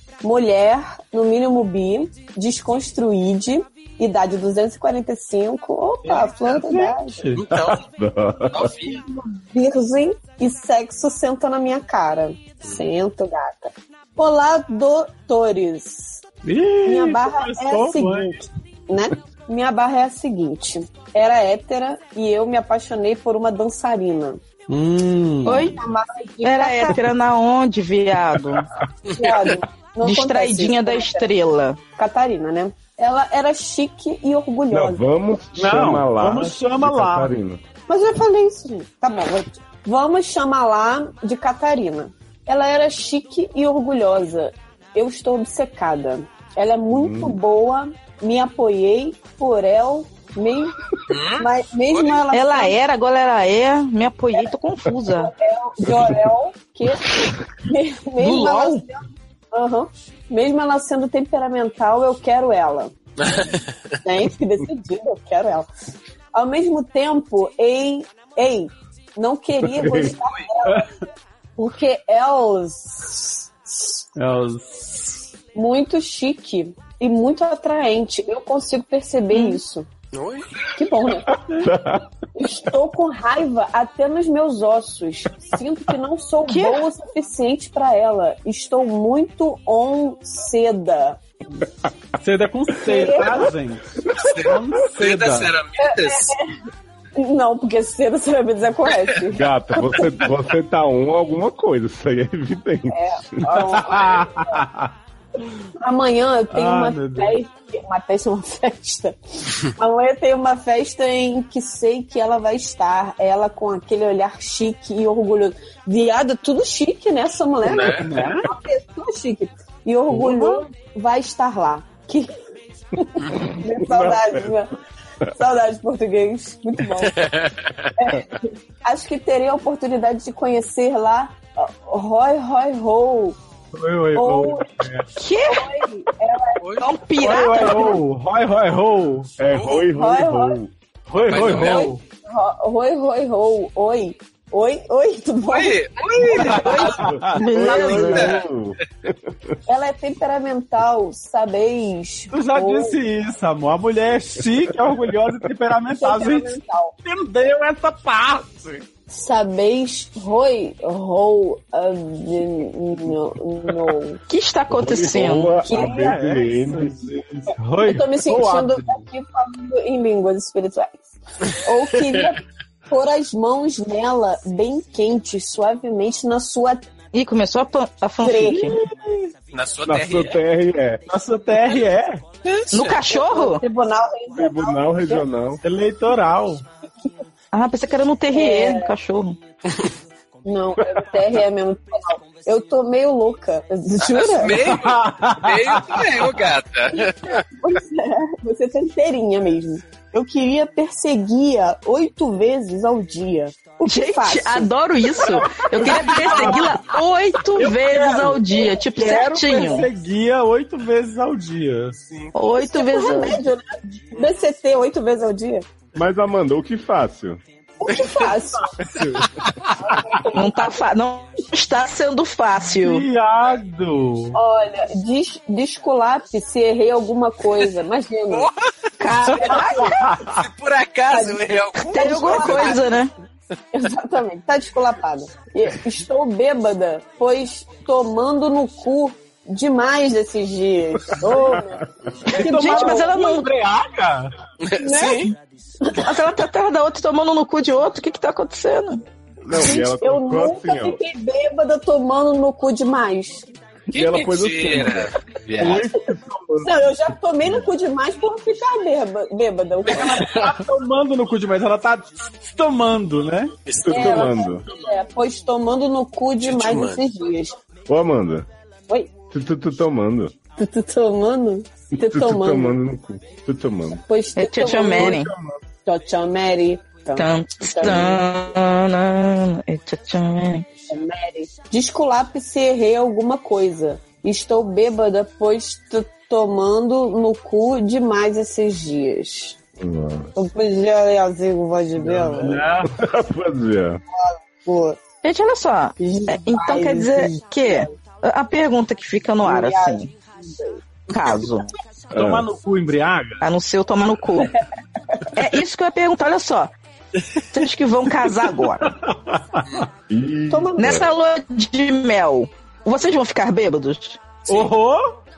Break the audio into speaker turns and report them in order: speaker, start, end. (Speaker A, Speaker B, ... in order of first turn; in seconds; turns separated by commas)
Speaker A: 0.2-7.2, Speaker B: 6.0-7.4, Speaker C: 7.3-7.8, Speaker D: 7.5-8.7, Speaker C: 8.5-9.0, Speaker A: 8.9-16.2, Speaker C: 12.6-12.9, Speaker B: 16.4-18.4, Speaker A: 16.9-24.4, Speaker B: 24.7-25.7, Speaker E: 25.4-25.8, Speaker A: 25.5-27.1, Speaker E: 26.4-28.7, Speaker C: 29.1-29.3, Speaker A: 29.1-31.3, Speaker E: 30.0-31.8, Speaker A: 31.9-35.0, Speaker D: 34.7-37.6, Speaker B: 35.5-37.3, Speaker A: 37.9-52.8, Speaker D: 46.9-47.4, Speaker C: 51.1-52.2, Speaker E: 52.3-55.3, Speaker A: 55.0-62.9, Speaker E: 58.2-58.8, Speaker C: 63.2-63.9, Speaker A: 64.0-65.7, Speaker A: 66.3-70.9, Speaker D: 69.6-70.2, Speaker A: 71.6-74.0, Speaker B: 74.2-75.2, Speaker A: 75.5-79.9, Speaker E: 79.3-79.6, Speaker C: 80.1-80.6, Speaker A: 80.7-81.4, Speaker D: 81.2-82.0, Speaker A: 82.3-91.2, Speaker E: 86.5-86.8, Speaker B: 92.2-95.5, Speaker A: 92.8-93.5, Speaker C: 94.2-96.3, Speaker A: 95.8-96.5, Speaker A: 97.2-100.2, Speaker D: 99.3-103.4, Speaker A: 102.9-104.6, Speaker B: 103.4-104.9, Speaker A: 105.8-122.3, Speaker B: 106.5-107.3, Speaker C: 117.6-118.0, Speaker B: 117.8-118.5, Speaker D: 120.1-120.6, Speaker A: 122.9-124.7, Speaker D: 123.5-124.6, Speaker A: 125.3-127.3, Speaker C: 127.0-127.9, Speaker A: 128.0-133.4, Speaker B: 133.7-135.1, Speaker A: 134.1-134.7, Speaker E: 135.2-135.7, Speaker A: 135.4-136.7, Speaker C: 136.6-136.9, Speaker E: 136.8-138.0, Speaker B: 137.2-139.3, Speaker D: 139.4-140.7, Speaker C: 139.5-139.8, Speaker A: 139.9-140.6, Speaker B: 141.1-142.0, Speaker C: 141.2-141.9, Speaker A: 141.5-148.5, Speaker C: 145.4-147.0, Speaker B: 146.3-147.4, Speaker D: 146.9-149.5, Speaker E: 147.3-148.3, Speaker C: 148.1-148.4, Speaker A: 149.7-153.0, Speaker B: 152.3-158.8, Speaker A: 156.0-156.9, Speaker A: 159.1-164.2, Speaker E: 164.3-165.6, Speaker D: 164.7-167.0, Speaker A: 165.6-166.2, Speaker B: 165.7-169.1, Speaker A: 167.8-176.9, Speaker E: 177.1-178.8, Speaker A: 178.2-178.8, Speaker B: 178.6-179.3, Speaker C: 179.5-180.4, Speaker D: 179.8-181.0, Speaker B: 181.1-182.2, Speaker C: 182.4-183.0, Speaker E: 182.7-183.6, Speaker A: 183.0-185.2, Speaker D: 184.3-185.6, Speaker B: 185.6-186.6, Speaker E: 187.5-189.4, Speaker A: 188.3-188.9, Speaker A: 190.4-194.7, Speaker D: 190.8-191.1, Speaker C: 194.0-197.4, Speaker B: 194.5-196.3, Speaker A: 196.9-206.6, Speaker E: 203.8-209.9, Speaker B: 205.2-206.7, Speaker B: 207.5-212.0, Speaker C: 212.1-212.3, Speaker E: 212.3-213.4, Speaker A: 212.5-215.7, Speaker D: 215.9-217.4, Speaker A: 217.8-219.1, Speaker C: 217.9-218.3, Speaker B: 218.8-219.3, Speaker A: 219.8-220.8, Speaker E: 220.3-223.1, Speaker B: 222.8-224.4, Speaker A: 224.3-228.5, Speaker C: 228.3-228.6, Speaker E: 229.0-230.0, Speaker A: 229.1-230.0, Speaker C: 229.3-232.8, Speaker B: 229.7-230.4, Speaker A: 231.1-232.9, Speaker E: 231.8-233.1, Speaker A: 233.7-243.2, Speaker D: 241.3-242.1, Speaker B: 242.2-244.3, Speaker E: 242.4-243.5, Speaker C: 244.6-245.3, Speaker A: 244.8-246.1, Speaker E: 245.9-249.0, Speaker D: 249.4-251.0, Speaker A: 249.5-253.4, Speaker D: 253.9-256.8, Speaker C: 253.9-255.9, Speaker A: 255.6-255.9, Speaker A: 256.6-260.4, Speaker B: 259.9-263.5, Speaker C: 259.9-260.5, Speaker C: 263.6-264.5, Speaker D: 263.8-264.6, Speaker A: 263.9-267.6, Speaker C: 266.4-267.1, Speaker D: 267.9-268.5, Speaker D: 269.3-270.3, Speaker A: 270.6-272.8, Speaker D: 271.9-274.0, Speaker A: 274.0-275.2, Speaker E: 274.4-275.3, Speaker D: 274.9-275.5, Speaker A: 275.8-278.2, Speaker E: 277.1-280.6, Speaker D: 277.8-278.2, Speaker A: 280.9-289.6, Speaker D: 289.8-290.3, Speaker A: 290.3-292.6, Speaker B: 291.9-292.9, Speaker D: 292.9-294.0, Speaker A: 294.1-295.0, Speaker E: 295.2-300.1, Speaker A: 296.0-297.9, Speaker A: 299.4-300.8, Speaker E: 301.1-301.7, Speaker B: 302.1-303.4, Speaker D: 302.1-302.5, Speaker E: 303.4-304.6, Speaker E: 305.3-306.7, Speaker E: 307.5-308.9, Speaker B: 308.2-309.9, Speaker D: 310.1-311.1, Speaker A: 310.5-311.1, Speaker E: 310.8-314.2, Speaker B: 314.5-315.1